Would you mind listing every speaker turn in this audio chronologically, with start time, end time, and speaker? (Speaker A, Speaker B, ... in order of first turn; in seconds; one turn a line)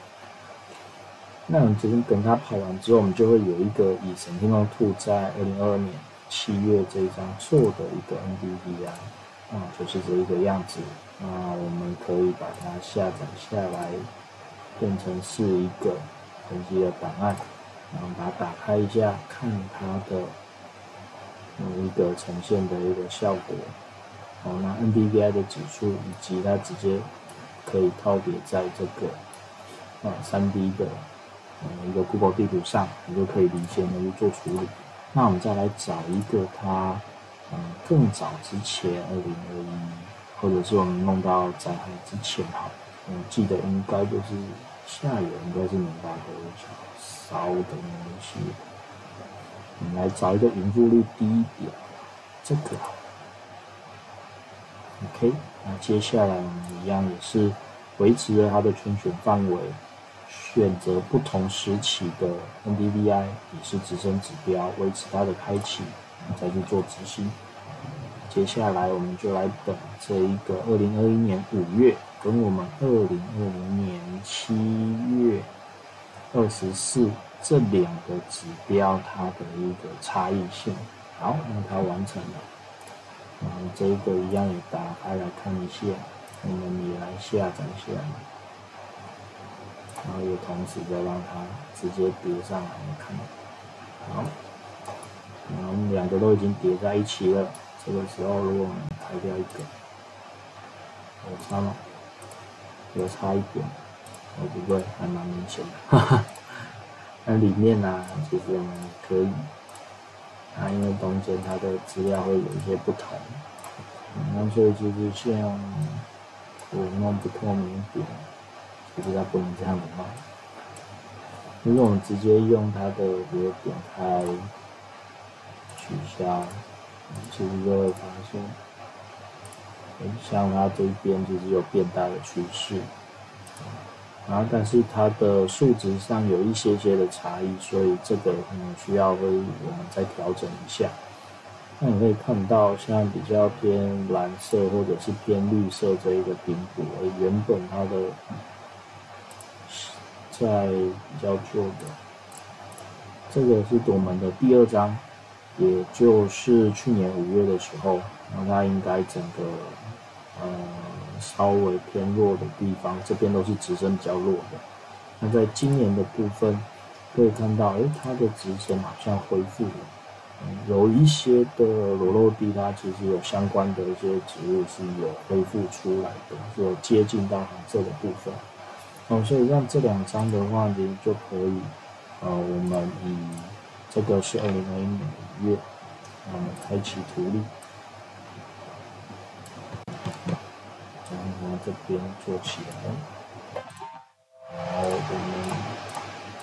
Speaker A: 1.5-14.1
Speaker A: 14.8-20.4
Speaker A: 21.6-23.8
Speaker A: 24.4-27.1
Speaker A: 27.6-29.2
Speaker A: 30.0-31.1
Speaker A: 31.6-48.6
Speaker A: 49.8-51.9
Speaker A: 52.4-53.0
Speaker A: 55.0-67.4
Speaker A: 68.2-75.5
Speaker A: 76.3-82.5
Speaker A: 83.4-88.3
Speaker A: 90.0-93.3
Speaker A: 94.0-94.3
Speaker A: 95.5-99.7
Speaker A: 101.2-101.8
Speaker A: 102.9-103.8
Speaker A: 104.3-106.7
Speaker A: 107.2-109.5
Speaker A: 110.5-113.4
Speaker A: 114.1-116.0
Speaker A: 116.7-118.2
Speaker A: 118.8-120.2
Speaker A: 121.6-124.5
Speaker A: 125.7-128.6
Speaker A: 130.0-132.9
Speaker A: 134.2-141.0
Speaker A: 141.8-148.2
Speaker A: 149.7-152.0
Speaker A: 153.3-155.0
Speaker A: 155.5-164.6
Speaker A: 165.2-178.5
Speaker A: 179.1-185.7
Speaker A: 186.2-187.5
Speaker A: 191.0-193.1
Speaker A: 194.5-195.8